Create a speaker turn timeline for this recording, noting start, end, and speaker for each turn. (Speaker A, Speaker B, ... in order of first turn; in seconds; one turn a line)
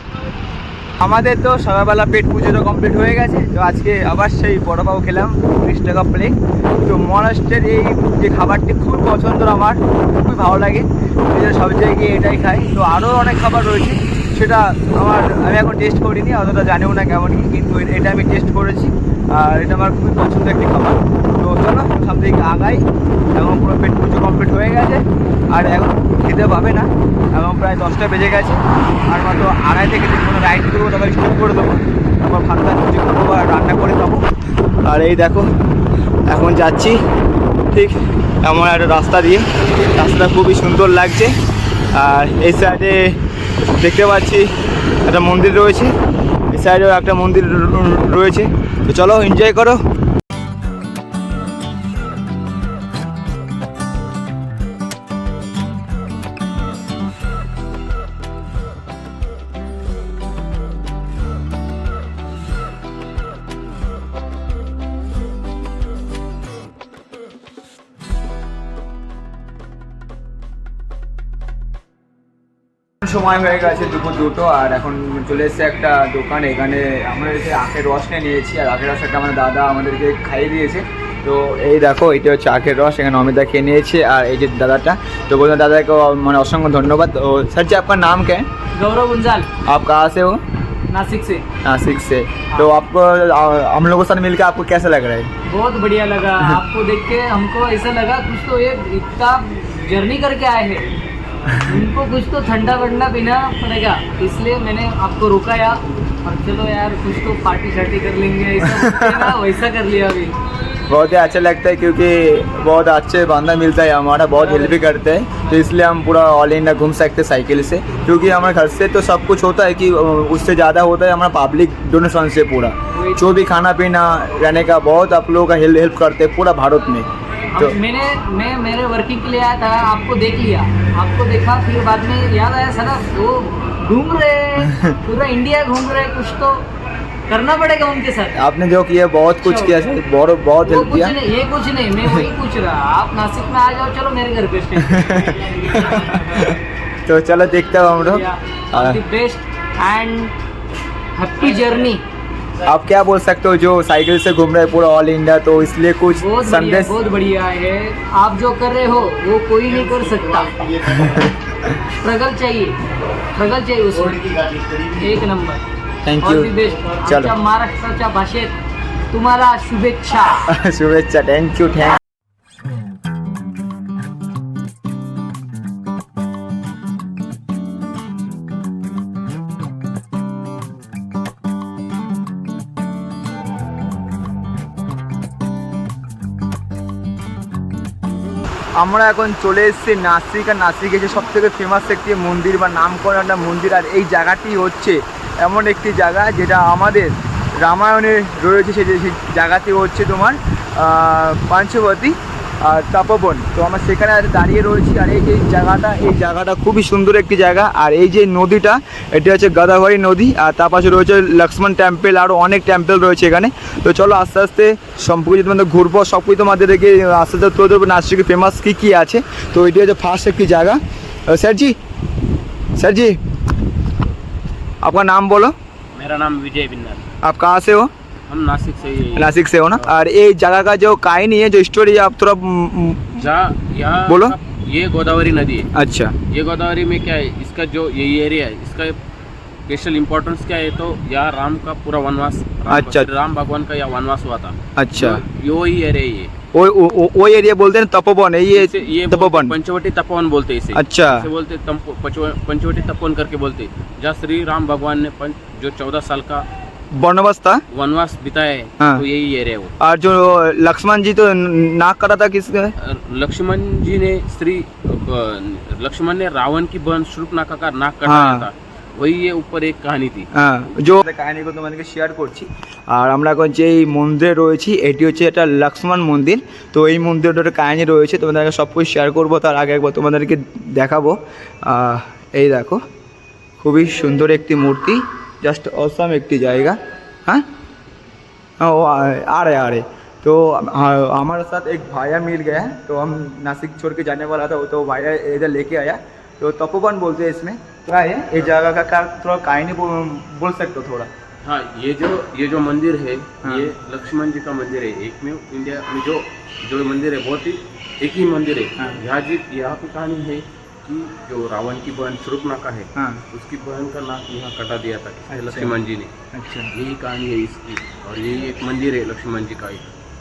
Speaker A: 1.0-34.2
Speaker A: 34.8-35.5
Speaker A: 36.3-37.0
Speaker A: 37.7-41.3
Speaker A: 41.9-43.1
Speaker A: 43.8-44.5
Speaker A: 45.0-45.9
Speaker A: 46.5-49.8
Speaker A: 73.0-88.5
Speaker B: 88.8-89.5
Speaker A: 89.7-90.4
Speaker B: 90.9-91.5
Speaker A: 91.6-95.3
Speaker B: 95.5-100.9
Speaker B: 101.6-110.3
Speaker A: 108.7-109.3
Speaker A: 110.9-127.8
Speaker B: 114.4-114.8
Speaker B: 122.9-123.4
Speaker B: 127.5-136.7
Speaker B: 137.3-138.4
Speaker A: 138.3-141.1
Speaker B: 139.4-140.0
Speaker B: 140.6-146.2
Speaker A: 144.8-149.0
Speaker B: 148.0-150.3
Speaker B: 151.2-152.0
Speaker A: 152.7-157.0
Speaker B: 156.2-160.7
Speaker A: 160.8-161.7
Speaker B: 161.9-162.8
Speaker B: 163.3-165.6
Speaker A: 166.0-167.3
Speaker B: 166.2-168.6
Speaker B: 169.1-170.5
Speaker A: 170.5-172.0
Speaker A: 188.8-221.7
Speaker A: 222.8-223.2
Speaker A: 224.8-225.5
Speaker C: 225.9-227.0
Speaker A: 227.2-227.9
Speaker C: 228.3-229.9
Speaker A: 229.2-233.3
Speaker C: 233.2-235.7
Speaker A: 234.1-234.3
Speaker A: 235.7-236.1
Speaker C: 236.3-238.9
Speaker C: 239.7-246.3
Speaker A: 242.7-243.1
Speaker A: 244.7-245.2
Speaker A: 246.5-249.6
Speaker C: 248.5-256.4
Speaker A: 250.7-251.3
Speaker A: 257.0-257.6
Speaker C: 257.7-259.7
Speaker A: 258.8-259.0
Speaker A: 259.8-262.7
Speaker C: 262.8-270.3
Speaker A: 268.0-268.5
Speaker A: 270.3-282.8
Speaker A: 283.6-287.4
Speaker A: 288.6-301.1
Speaker C: 301.4-316.1
Speaker A: 303.4-303.7
Speaker A: 312.9-313.2
Speaker A: 315.3-315.8
Speaker A: 316.3-316.7
Speaker C: 316.7-319.9